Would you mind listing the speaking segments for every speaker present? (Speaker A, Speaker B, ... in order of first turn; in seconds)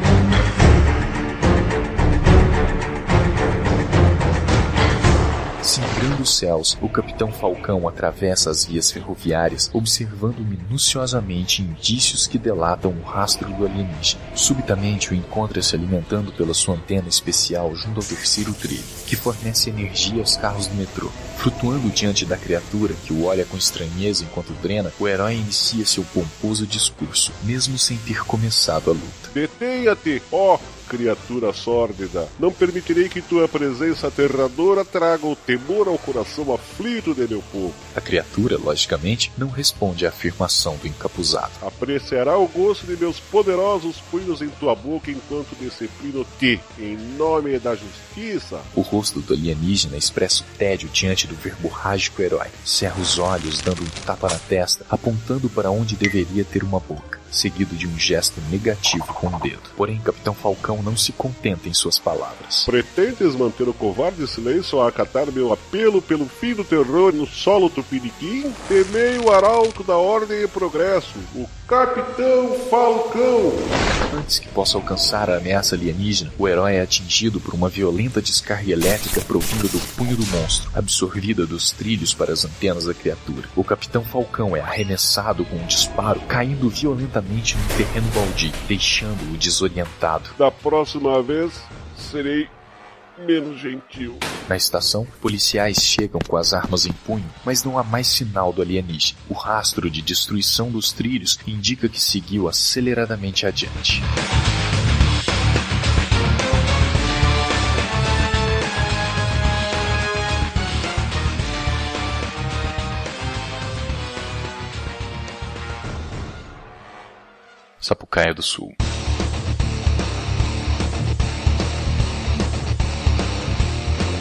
Speaker A: 5.6-29.3, 38.0-41.6, 48.8-62.7, 74.1-90.3, 94.5-104.0, 117.8-118.8
Speaker B: 29.3-37.8, 41.6-48.7, 62.7-73.7, 90.4-92.5, 93.2-94.3